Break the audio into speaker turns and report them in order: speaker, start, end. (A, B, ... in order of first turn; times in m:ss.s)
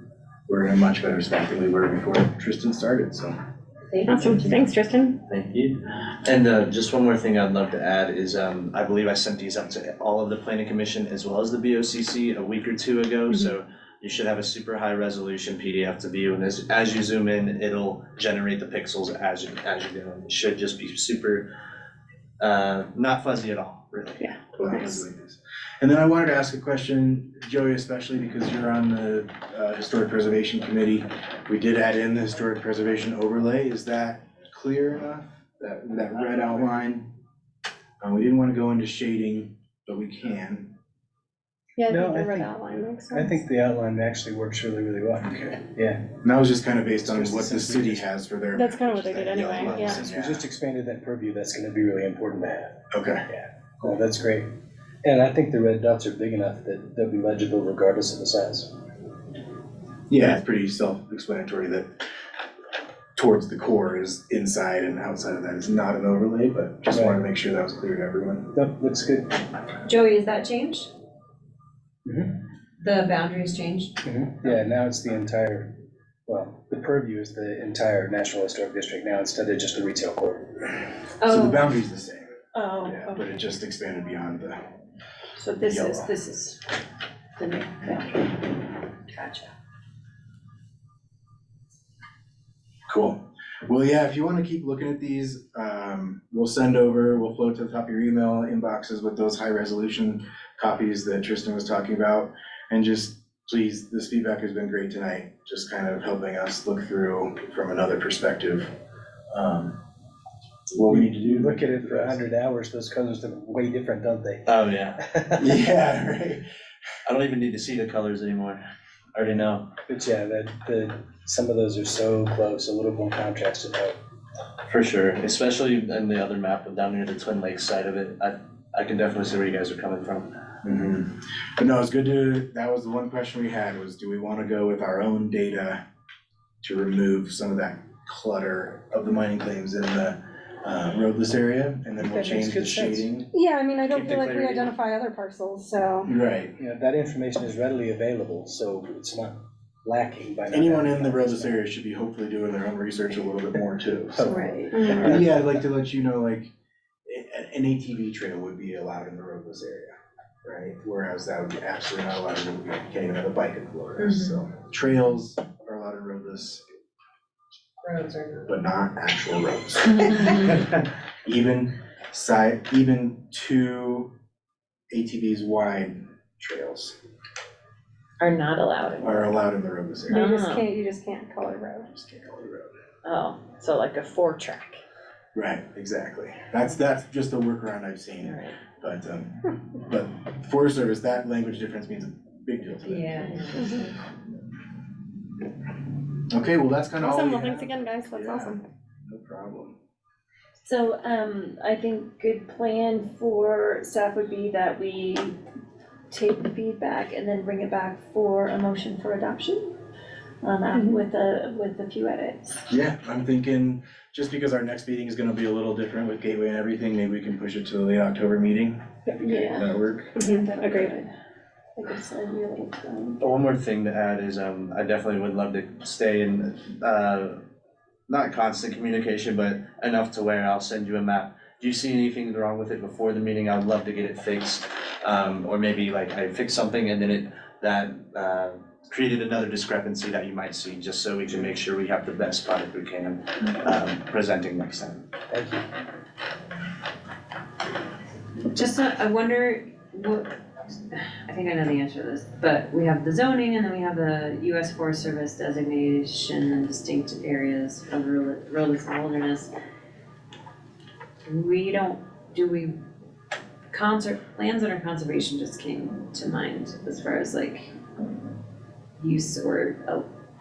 0:00.5-0:03.3 A
0:03.9-0:04.6 B
0:04.1-0:05.2 C
0:04.2-0:04.7 A
0:05.3-0:21.5 D
0:22.4-0:24.3 D
0:24.2-0:25.0 C
0:24.6-0:37.1 A
0:38.0-0:40.7 A
0:41.8-0:43.4 C
0:41.9-0:42.5 E
0:43.1-0:46.1 E
0:46.2-0:50.4 A
0:47.0-0:48.0 E
0:48.5-0:50.0 C
0:49.6-0:54.5 E
0:52.9-0:53.2 A
0:55.0-0:58.7 E
1:00.1-1:02.0 A
1:03.2-1:08.5 A
1:06.9-1:07.2 E
1:08.5-1:09.4 E
1:09.8-1:10.9 B
1:12.0-1:12.4 E
1:12.8-1:14.0 B
1:14.0-1:15.7 E
1:16.2-1:20.6 E
1:21.2-1:21.6 B
1:21.2-1:24.6 A
1:22.5-1:23.1 F
1:25.4-1:26.5 F
1:25.6-1:26.1 A
1:27.4-1:28.1 F
1:27.4-1:28.0 B
1:29.2-1:29.4 B
1:32.9-1:48.7 A
1:49.3-1:49.8 A
1:50.7-1:52.2 A
1:50.9-1:55.6 E
1:54.4-1:55.0 D
1:55.4-1:56.4 A
1:57.0-1:58.6 D
1:59.1-1:59.7 D
1:59.9-2:04.0 E
2:04.7-2:10.4 D
2:10.6-2:15.8 A
2:16.6-2:23.3 A
2:22.0-2:23.1 E
2:23.3-2:26.1 C
2:23.9-2:24.7 D
2:26.0-2:26.5 A
2:26.6-2:31.6 E
2:30.5-2:34.3 A
2:34.1-2:35.6 E
2:34.8-2:36.5 A
2:37.0-2:46.6 A
2:44.0-2:44.4 B
2:47.8-2:48.5 B
2:48.5-2:50.6 A
2:51.2-2:54.1 A
2:54.9-2:56.9 A
2:58.2-2:59.4 B
2:59.0-3:00.3 A
3:00.1-3:00.7 B
3:00.1-3:01.9 C
3:01.9-3:02.7 A
3:03.0-3:04.8 B
3:05.3-3:13.9 A
3:08.2-3:08.6 B
3:12.8-3:13.9 B
3:16.3-3:19.8 A
3:17.0-3:18.6 C
3:20.6-3:25.3 F
3:26.1-3:29.7 F
3:30.4-3:32.5 F
3:30.7-3:31.0 C
3:32.7-3:40.2 A
3:39.1-3:39.6 E
3:39.2-3:41.1 F
3:40.2-3:40.9 C
3:41.8-3:43.2 F
3:43.2-3:47.4 D
3:48.1-4:05.1 D
4:05.3-4:05.6 E
4:08.5-4:19.5 B
4:21.2-4:22.8 B
4:23.7-4:27.7 B
4:29.0-4:30.1 B